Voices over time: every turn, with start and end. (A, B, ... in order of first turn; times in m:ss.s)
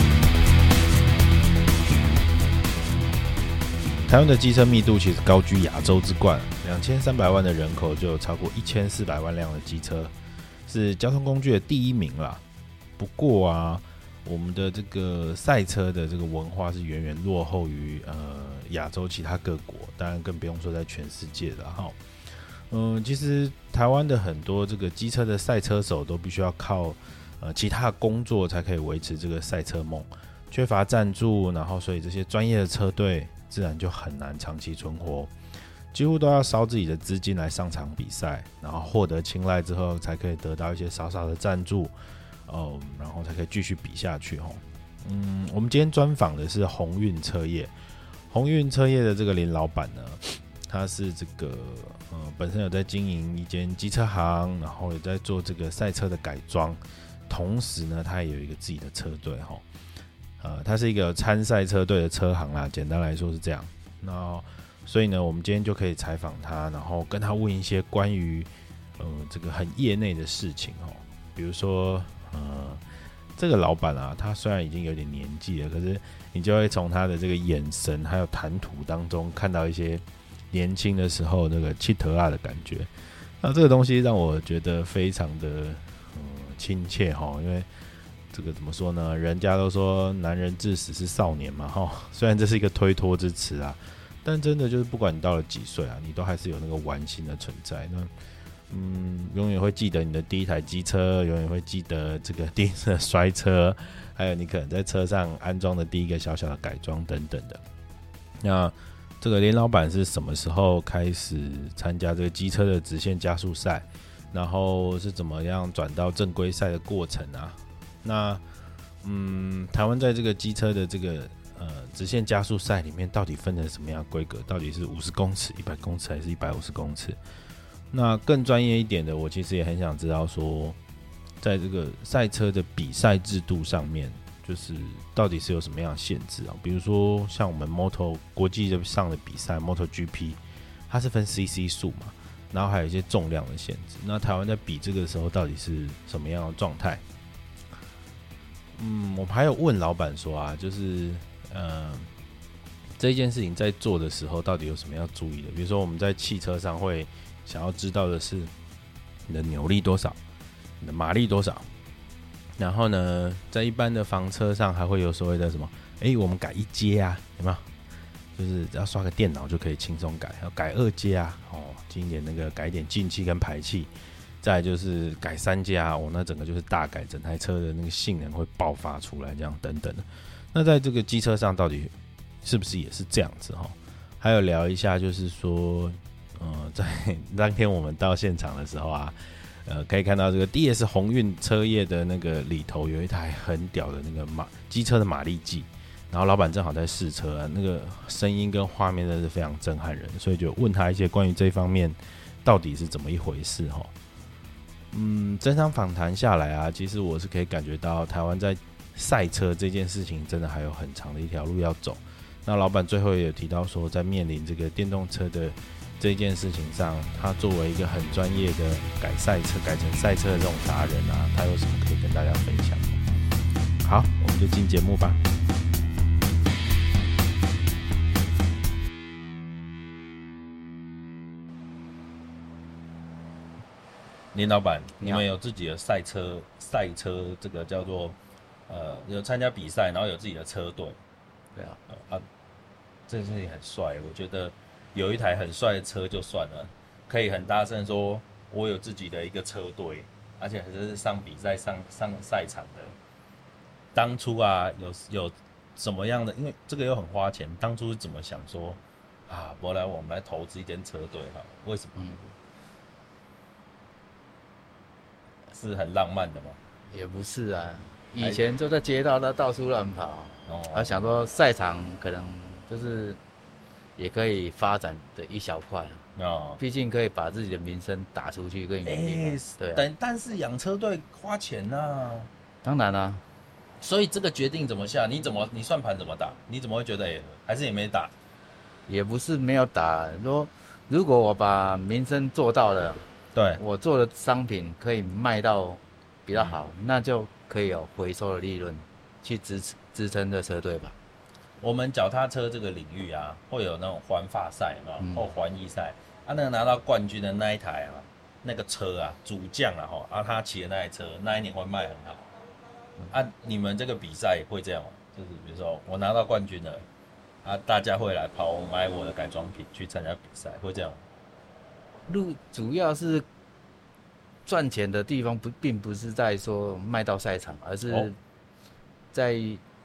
0:04.1-0:10.1 A
0:10.7-0:12.4 A
0:13.0-0:35.3 A
0:35.9-0:41.9 A
0:42.5-0:47.7 A
0:48.3-0:59.6 A
1:00.4-1:12.8 A
1:13.4-1:27.7 A
1:28.3-1:38.1 A
1:38.7-1:47.6 A
1:48.4-1:58.4 A
1:59.0-2:07.2 A
2:07.9-2:10.8 A
2:11.4-2:27.0 A
2:28.7-2:32.1 A
2:33.0-2:38.5 A
2:39.3-2:40.2 A
2:40.8-2:41.7 A
2:42.6-2:47.6 A
2:48.4-3:23.9 A
3:24.9-3:43.0 A
3:43.8-3:45.2 A
3:54.3-3:58.2 A
3:58.7-4:01.0 A
4:01.9-4:02.2 A
4:03.1-4:13.0 A
4:13.9-4:22.1 A
4:22.0-4:22.3 B
4:25.5-4:26.6 A
4:26.9-4:33.2 B
4:30.5-4:31.0 A
4:34.0-4:36.0 B
4:36.2-4:36.6 A
4:36.6-4:39.8 B
4:38.8-4:42.3 A
4:42.6-4:43.2 B
4:43.8-4:48.1 A
4:48.9-4:53.0 B
4:53.3-4:53.6 A
4:53.6-5:01.0 B
4:56.3-4:56.6 A
5:01.6-5:12.3 A
5:05.0-5:05.2 B
5:13.1-5:16.8 A
5:17.4-5:21.0 A
5:22.1-5:23.2 B
5:24.4-5:28.2 B
5:29.1-5:29.6 B